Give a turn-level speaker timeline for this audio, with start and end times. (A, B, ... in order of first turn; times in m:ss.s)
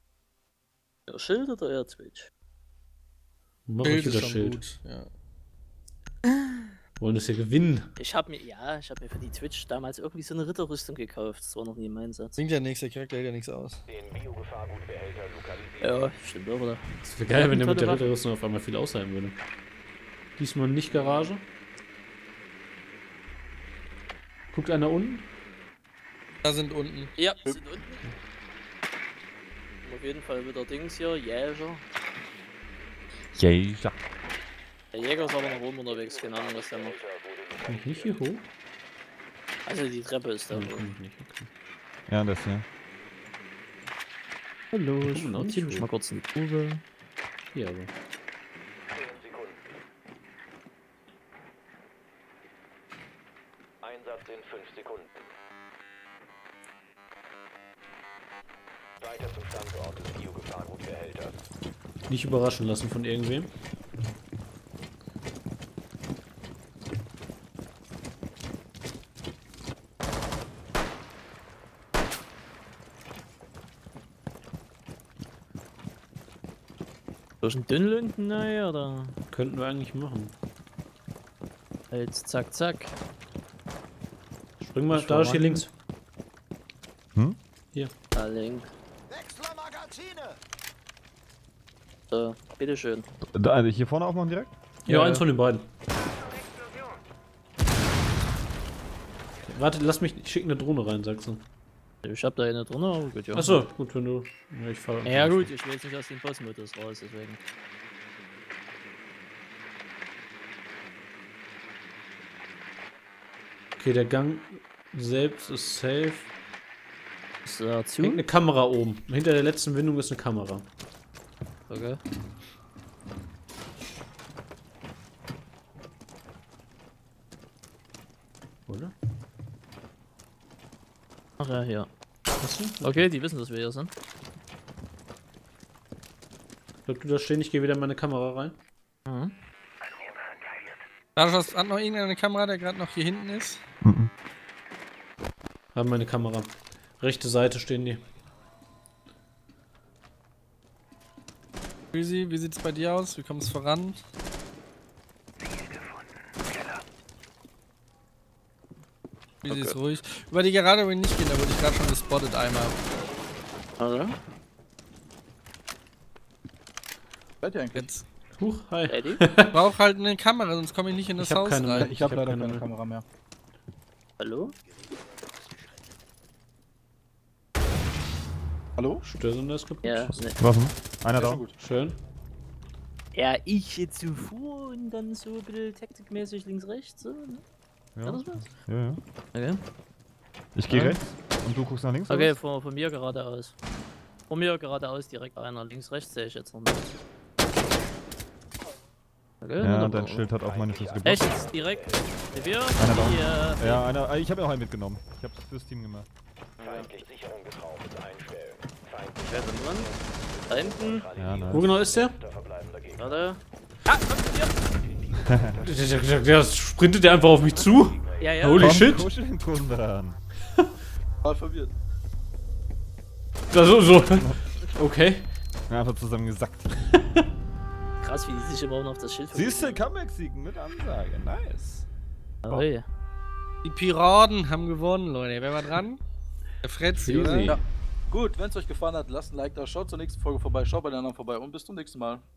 0:01.1-0:02.3 A
0:03.7-0:04.6 B
0:03.8-0:05.1 C
0:06.3-0:06.7 A
0:07.0-0:07.9 B
0:08.0-0:12.4 A
0:12.4-0:13.8 C
0:13.9-0:16.0 D
0:15.8-0:18.0 A
0:17.0-0:19.4 B
0:20.4-0:21.4 B
0:20.9-0:21.3 A
0:24.5-0:25.2 B
0:26.4-0:27.1 C
0:27.2-0:28.0 A
0:29.8-0:31.9 A
0:33.3-0:34.0 E
0:34.9-0:37.0 A
0:35.1-0:38.2 D
0:37.7-0:38.4 B
0:39.6-0:40.9 A
0:40.5-0:41.5 B
0:42.1-0:42.6 E
0:44.7-0:46.8 A
0:45.0-0:45.9 B
0:47.5-0:47.9 B
0:48.9-0:49.7 D
0:53.8-0:55.3 D
0:59.0-1:01.5 D
1:02.1-1:03.5 B
1:17.4-1:19.2 A
1:19.3-1:20.3 B
1:21.9-1:22.9 A
1:24.6-1:25.7 B
1:24.9-1:25.7 A
1:28.1-1:28.7 A
1:32.1-1:33.1 A
1:33.2-1:34.6 E
1:34.9-1:35.7 B
1:34.9-1:35.2 A
1:39.4-1:41.4 B
1:42.0-1:43.7 A
1:43.3-1:45.5 B
1:45.0-1:47.4 A
1:53.8-1:56.3 B
1:57.4-1:58.2 A
1:58.0-2:00.7 B
2:01.7-2:02.0 A
2:08.7-2:08.9 B
2:11.4-2:11.9 A
2:12.4-2:13.0 B
2:12.8-2:13.9 A
2:16.9-2:18.6 B
2:19.1-2:19.4 A
2:21.2-2:23.6 C
2:23.8-2:24.1 E
2:25.7-2:28.0 B
2:31.9-2:34.0 C
2:39.4-2:39.8 A
2:39.4-2:42.8 C
2:43.8-2:44.2 A
2:47.4-2:47.9 F
2:47.7-2:48.1 C
2:48.4-2:49.6 B
2:48.9-2:49.2 A
2:49.5-2:51.9 C
2:51.2-2:52.7 B
2:51.8-2:53.0 F
2:54.2-2:54.5 A
2:58.8-2:59.0 F
2:59.0-3:00.3 B
2:59.8-3:00.4 A
3:00.4-3:01.4 E
3:01.2-3:01.6 F
3:01.6-3:02.0 B
3:03.1-3:07.4 A
3:08.0-3:09.0 E
3:08.0-3:08.5 A
3:09.3-3:09.6 A
3:10.6-3:12.4 E
3:10.7-3:11.0 A
3:12.1-3:13.6 A
3:14.3-3:16.9 A
3:19.4-3:20.3 A
3:19.6-3:21.5 E
3:20.4-3:23.1 D
3:21.0-3:23.9 A
3:22.8-3:26.1 E
3:26.6-3:26.9 A
3:26.6-3:33.2 D
3:29.3-3:29.9 A
3:30.5-3:31.1 A
3:31.2-3:31.7 E
3:31.5-3:32.2 B
3:33.0-3:34.5 A
3:34.6-3:36.5 D
3:35.2-3:35.5 E
3:35.6-3:39.1 B
3:37.0-3:38.6 D
3:38.2-3:38.9 A
3:38.6-3:40.2 E
3:41.2-3:41.7 F
3:43.5-3:45.3 B
3:45.7-3:46.7 E
3:48.0-3:49.8 A
3:49.3-3:51.9 E
3:52.4-3:52.9 A
3:53.6-3:56.0 C
3:56.6-3:57.6 C
3:57.0-3:57.6 B
3:57.4-4:02.2 F